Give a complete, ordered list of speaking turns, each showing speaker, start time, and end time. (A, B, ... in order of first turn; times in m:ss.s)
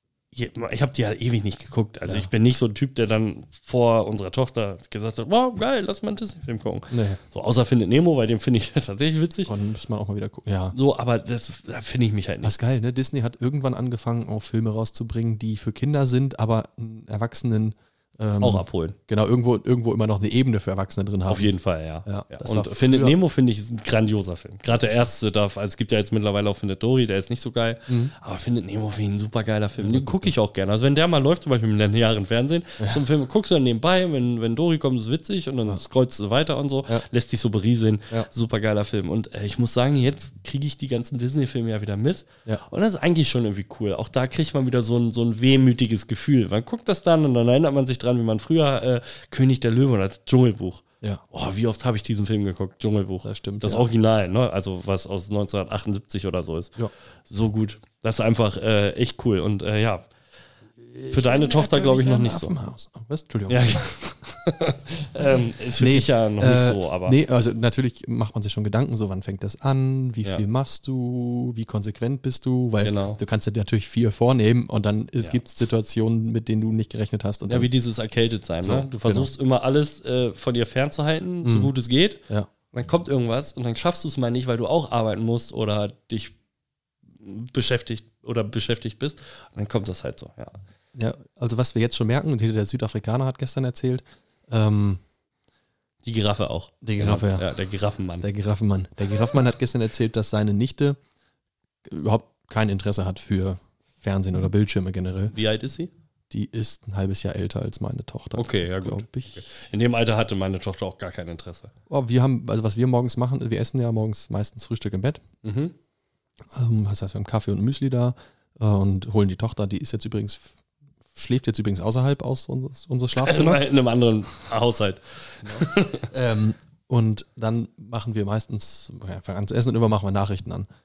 0:00.3-0:09.5 A
0:06.9-0:07.2 B
0:09.5-0:10.8 B
0:10.7-0:12.6 A
0:12.4-0:21.5 B
0:18.4-0:19.0 A
0:21.3-0:56.8 A
0:22.0-0:23.2 B
0:27.9-0:28.1 B
0:29.8-0:30.3 B
0:53.2-0:53.9 B
0:57.3-1:00.1 A
1:00.8-1:04.0 B
1:01.1-1:02.5 A
1:03.5-1:07.2 A
1:05.8-1:17.7 B
1:12.8-1:13.2 A
1:17.5-1:26.4 A
1:18.6-1:19.3 B
1:21.4-1:21.7 B
1:27.1-1:30.6 A
1:31.0-1:35.0 B
1:36.0-1:38.2 A
1:36.8-1:37.5 B
1:38.2-1:41.0 B
1:41.8-1:45.3 B
1:45.3-1:45.9 A
1:46.3-1:49.4 B
1:48.4-1:51.7 A
1:51.9-1:55.2 B
1:55.4-1:55.8 A
1:56.5-2:00.6 B
2:01.1-2:03.7 B
2:03.2-2:06.1 A
2:05.4-2:10.7 B